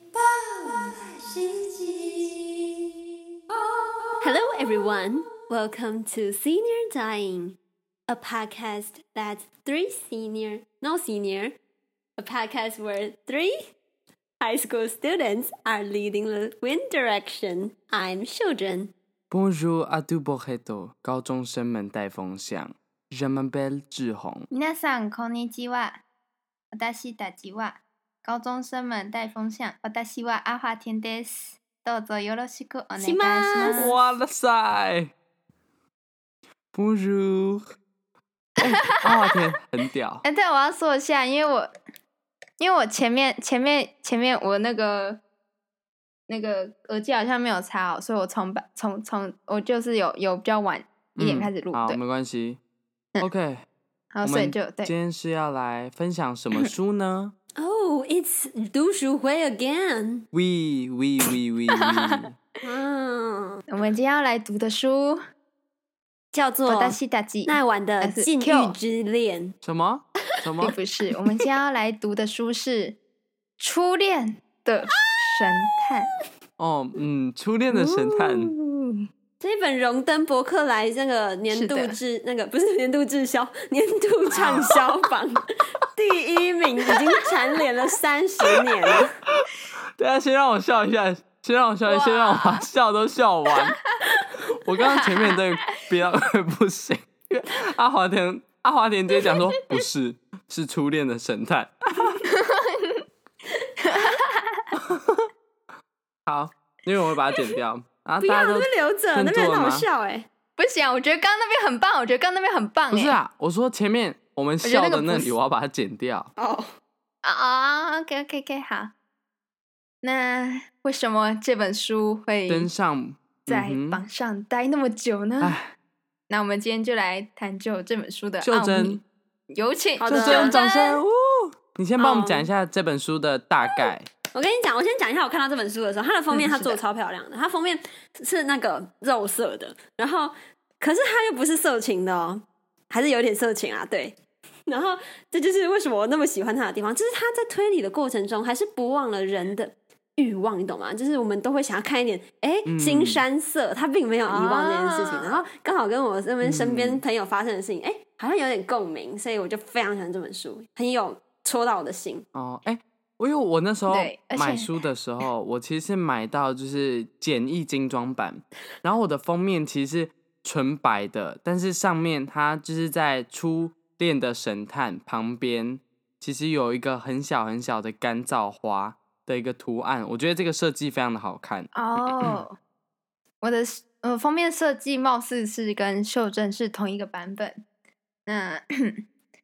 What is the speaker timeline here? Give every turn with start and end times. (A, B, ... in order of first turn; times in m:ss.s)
0:00.1-0:02.9 A
0:03.5-0:07.6 A
0:08.1-0:11.6 A
0:12.2-0:13.6 A
0:14.4-0:18.9 A
0:19.3-0:24.5 B
0:24.5-0:26.0 C
0:26.7-0:33.9 C
0:33.0-0:33.9 A
0:33.6-0:35.1 B
0:36.7-0:37.6 B
0:38.6-0:40.2 B
0:38.8-0:39.3 C
0:40.2-0:41.7 C
0:42.6-0:45.2 C
0:46.3-0:52.0 C
0:51.2-0:52.6 B
0:53.2-0:53.6 B
0:54.1-0:54.9 C
0:54.2-0:57.3 B
0:57.6-1:00.2 A
1:00.3-1:02.4 B
1:01.8-1:02.2 C
1:02.6-1:03.6 A
1:03.7-1:05.2 C
1:06.3-1:09.5 A
1:06.7-1:08.8 C
1:09.6-1:10.8 B
1:10.6-1:13.0 C
1:13.6-1:16.1 C
1:16.6-1:18.5 B
1:18.4-1:19.0 C
1:19.4-1:25.4 A
1:21.5-1:22.0 C
1:24.4-1:24.8 B
1:26.0-1:29.1 A
1:28.8-1:29.4 B
1:30.0-1:33.8 B
1:31.9-1:32.7 C
1:34.4-1:42.2 B
1:34.8-1:35.8 C
1:39.2-1:39.8 C
1:42.2-1:43.0 C
1:43.8-1:44.8 C
1:44.8-1:45.2 B
1:46.3-1:49.9 B
1:48.2-1:50.3 A
1:50.6-1:53.2 C
1:52.9-1:56.3 B
1:54.6-1:55.4 C
1:56.4-1:56.7 A
1:57.2-1:58.9 C
2:00.0-2:02.7 C
2:02.5-2:04.0 B
2:03.5-2:05.6 C
2:05.4-2:05.7 B
2:06.3-2:09.0 C
2:08.4-2:09.0 B
2:09.5-2:11.0 C
2:10.0-2:10.6 A
2:10.1-2:14.1 B
2:12.0-2:12.5 A
2:14.3-2:24.2 A
2:16.3-2:16.8 C
2:24.7-2:42.2 A
2:32.6-2:33.2 B
2:34.2-2:35.4 C
2:36.4-2:37.0 B
2:42.3-3:02.4 B
2:43.9-2:44.7 C
3:01.7-3:02.6 C
3:03.4-3:07.6 C
3:08.3-3:09.0 C